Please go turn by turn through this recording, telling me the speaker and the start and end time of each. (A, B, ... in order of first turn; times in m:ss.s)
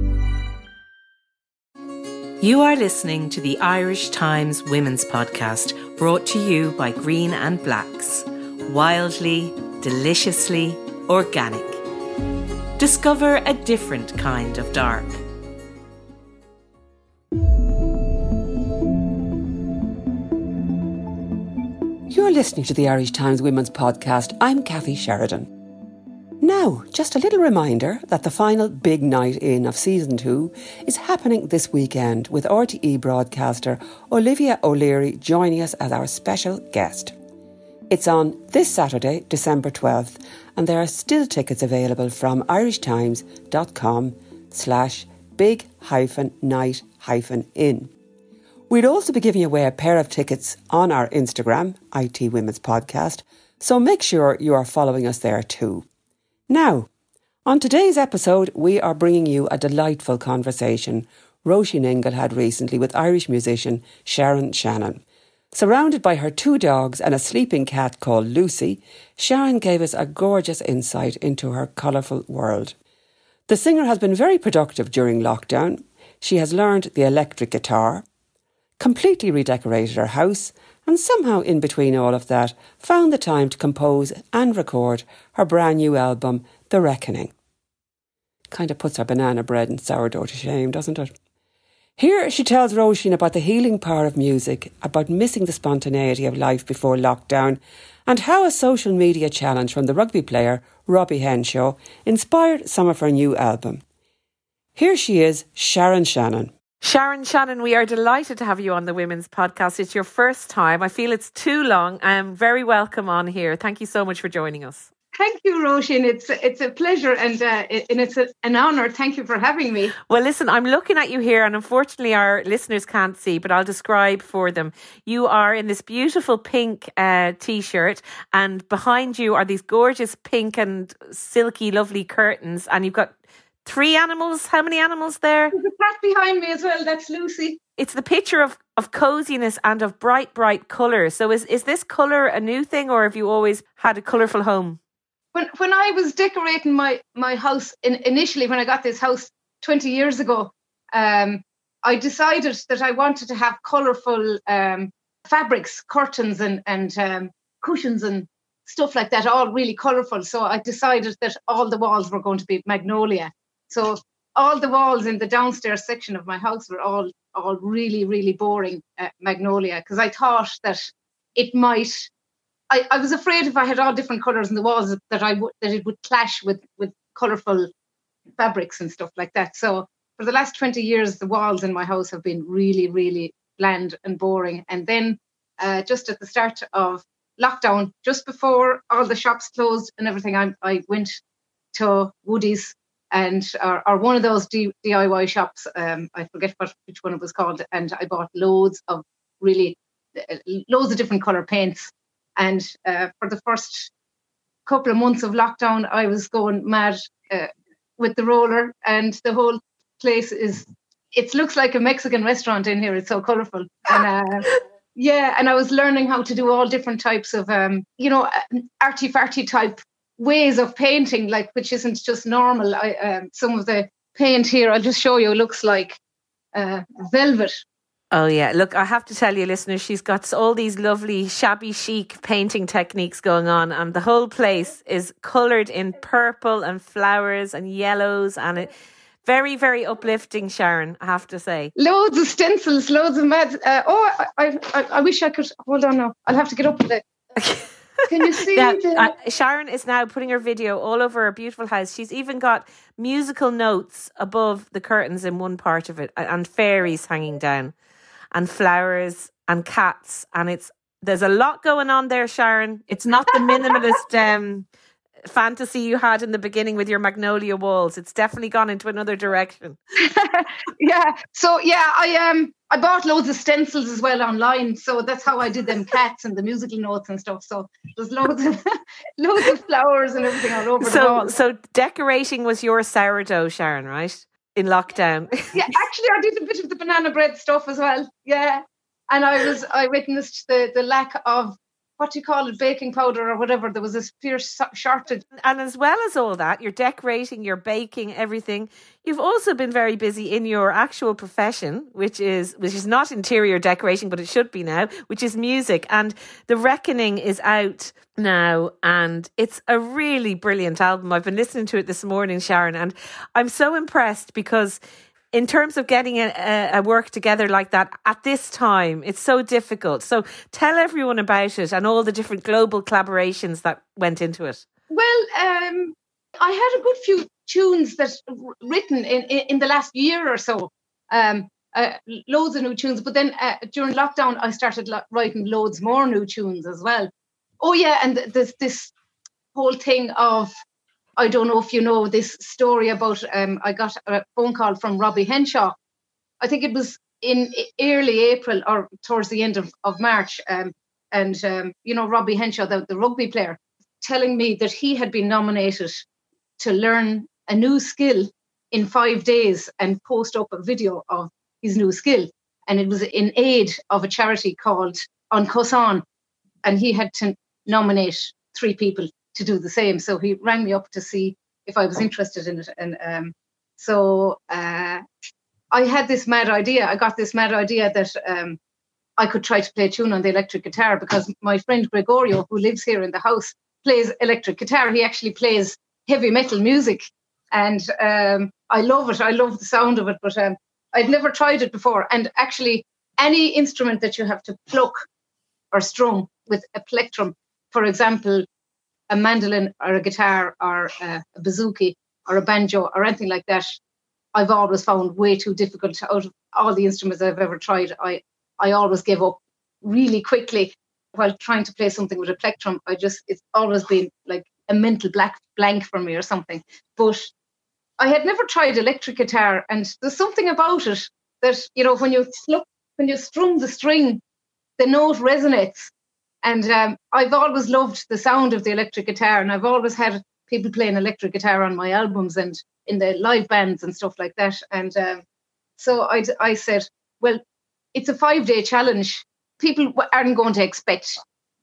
0:02.4-0:11.8 A
0:12.8-0:15.2 A
0:22.1-0:25.5 B
0:26.4-0:37.1 B
0:37.9-0:47.9 B
0:48.7-0:55.9 B
0:56.5-0:56.9 B
0:57.5-1:05.0 B
1:05.5-1:12.8 B
1:13.5-1:18.0 B
1:18.8-1:27.3 B
1:28.5-1:31.1 B
1:32.0-1:43.8 B
1:44.8-1:46.5 B
1:46.8-1:54.9 A
1:55.2-2:00.0 C
2:00.1-2:15.6 A
2:15.5-2:17.6 C
2:17.8-2:24.8 A
2:25.3-2:52.1 C
2:52.7-2:57.7 C
2:58.4-3:11.2 C
3:11.7-3:23.9 C
3:24.7-3:46.0 C
3:46.5-3:47.6 C
3:48.1-3:58.7 A
3:59.2-4:01.7 A
4:01.8-4:07.0 C
4:07.4-4:17.7 A
4:08.1-4:09.1 C
4:18.3-4:24.7 A
4:25.2-4:29.8 A
4:30.0-4:41.3 C
4:40.8-4:45.7 A
4:45.6-4:55.2 C
4:55.4-5:14.8 A
5:15.3-5:24.6 A
5:24.9-5:37.1 C
5:37.6-5:38.9 C
5:39.6-5:40.5 C
5:41.2-5:45.8 C
5:46.4-5:56.0 C
5:56.6-6:06.0 C
6:06.6-6:15.0 C
6:15.7-6:18.6 C
6:19.2-6:35.1 C
6:35.7-6:38.5 C
6:39.1-6:43.8 C
6:44.3-6:57.3 C
6:58.0-7:04.2 C
7:04.8-7:05.9 C
7:06.4-7:15.2 C
7:15.8-7:17.4 C
7:17.9-7:21.2 C